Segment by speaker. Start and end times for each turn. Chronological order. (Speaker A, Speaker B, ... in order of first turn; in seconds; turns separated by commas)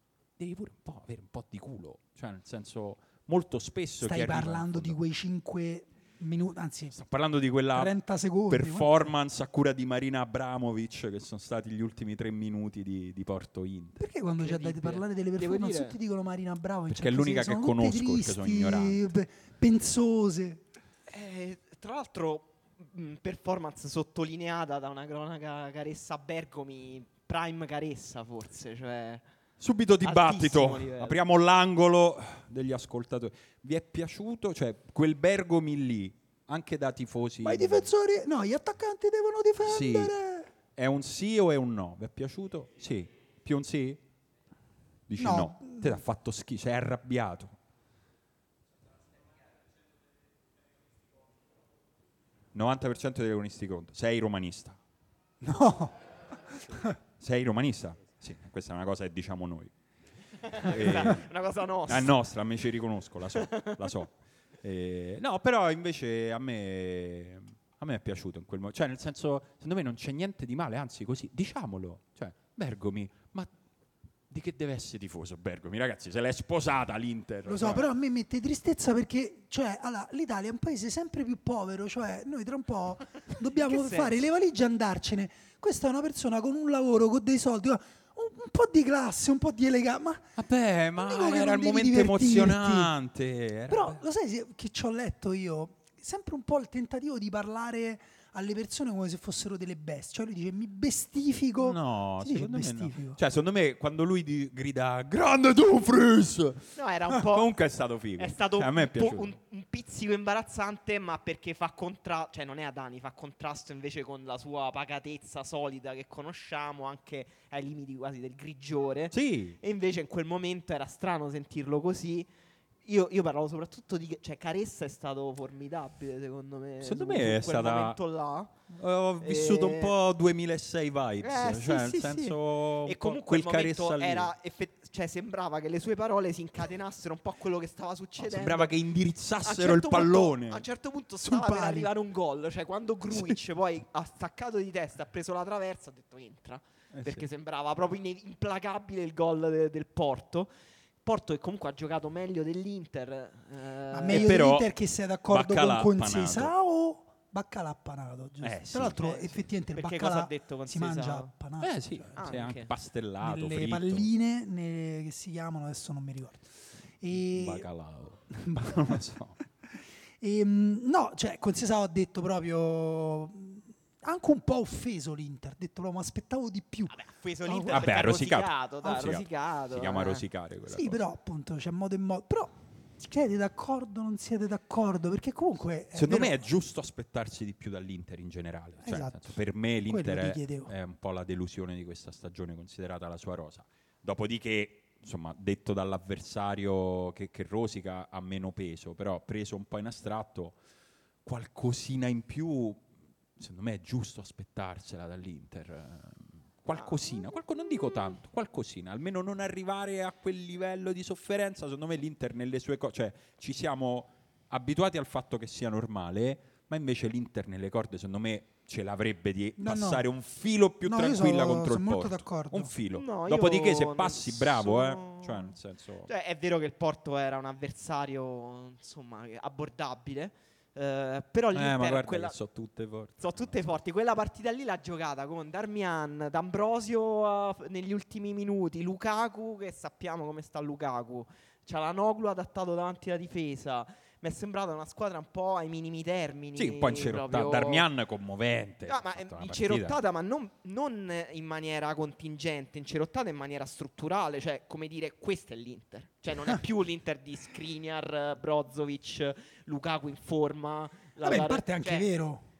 Speaker A: 0.4-5.0, Speaker B: 4.0-6.9, Speaker A: 6.9-14.0, Speaker B: 7.7-9.1, Speaker B: 14.0-20.6, Speaker C: 14.4-15.9, Speaker A: 16.9-19.0, Speaker C: 21.1-29.2, Speaker A: 29.6-37.9, Speaker C: 30.0-31.2, Speaker B: 37.4-40.5, Speaker A: 39.6-40.1, Speaker A: 40.8-44.0, Speaker A: 45.1-47.5, Speaker B: 45.2-46.0, Speaker A: 52.5-54.8, Speaker B: 55.4-55.9, Speaker A: 57.2-59.7, Speaker C: 60.4-62.1, Speaker A: 60.6-61.3, Speaker A: 61.9-73.5, Speaker C: 63.3-63.8, Speaker A: 74.3-77.8, Speaker B: 77.4-90.3, Speaker C: 83.5-84.3, Speaker A: 90.4-94.0, Speaker B: 91.0-92.9, Speaker B: 93.7-103.2, Speaker A: 101.6-109.3, Speaker C: 106.8-107.5, Speaker C: 108.2-122.3, Speaker A: 119.1-119.6, Speaker C: 122.8-128.6, Speaker A: 126.8-128.0, Speaker A: 128.7-134.3, Speaker C: 129.2-129.9, Speaker C: 131.2-138.7, Speaker A: 138.2-140.6, Speaker C: 139.4-150.5, Speaker B: 141.2-141.9, Speaker A: 146.9-147.2, Speaker C: 151.0-154.4, Speaker B: 153.9-161.8, Speaker A: 154.1-154.7, Speaker A: 155.3-156.5, Speaker A: 158.4-159.0, Speaker C: 159.7-161.3, Speaker A: 161.6-164.1, Speaker C: 162.2-162.7, Speaker B: 163.2-166.5, Speaker B: 167.0-167.7, Speaker A: 167.1-169.4, Speaker B: 168.5-168.9, Speaker B: 170.2-178.0, Speaker C: 176.9-180.2, Speaker A: 177.7-181.0, Speaker B: 180.7-186.4, Speaker A: 185.9-200.6, Speaker B: 188.8-190.7, Speaker A: 201.2-202.9, Speaker A: 203.4-226.1, Speaker C: 206.7-207.2, Speaker B: 219.6-220.1, Speaker B: 220.8-222.7, Speaker C: 222.9-225.5, Speaker C: 226.1-232.3, Speaker A: 231.5-233.8, Speaker C: 233.2-247.8, Speaker A: 246.6-250.0, Speaker C: 248.9-262.1, Speaker B: 261.2-262.4